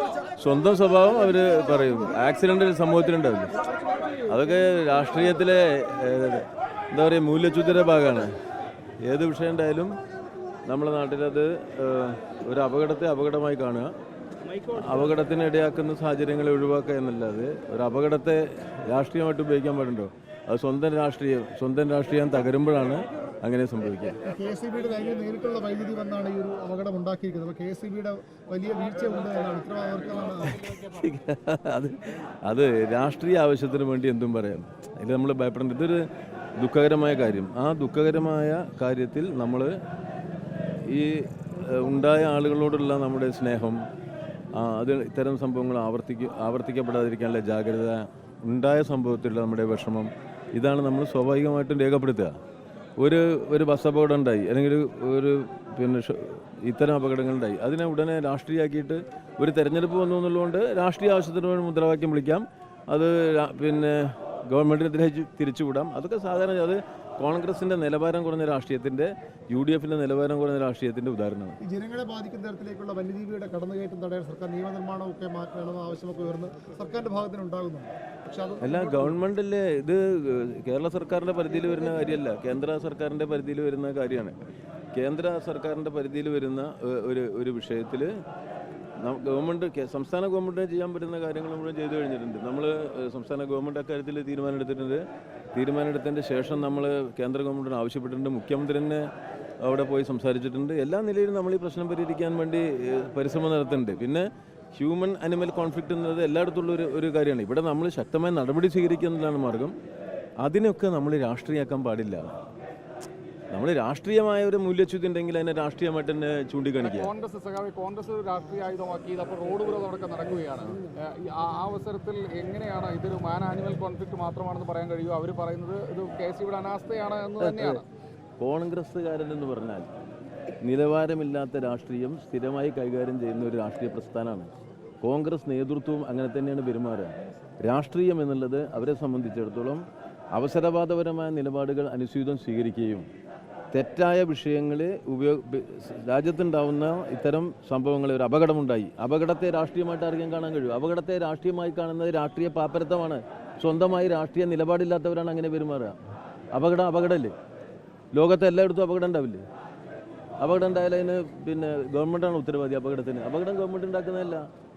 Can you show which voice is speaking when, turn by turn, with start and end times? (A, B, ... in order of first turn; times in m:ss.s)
0:00.4-0:03.5 A
0:04.3-0:08.3 A
0:09.0-0:09.9 A
0:10.7-0:13.9 A
0:14.6-0:24.2 A
0:24.2-0:30.8 B
0:30.6-0:36.1 A
0:36.6-0:39.7 A
0:40.9-0:43.8 A
0:44.5-0:52.4 A
0:53.0-1:11.6 A
1:11.6-1:19.2 B
1:18.6-1:24.4 A
1:24.9-1:28.1 A
1:29.0-1:39.0 A
1:39.6-1:49.8 A
1:50.4-1:52.3 A
1:53.5-1:57.1 A
1:56.8-2:07.9 C
2:07.4-2:07.8 A
2:08.4-2:09.9 A
2:10.6-2:14.5 A
2:15.0-2:23.1 A
2:23.7-2:36.0 A
2:36.5-2:37.3 A
2:38.1-2:39.4 A
2:40.4-2:44.4 A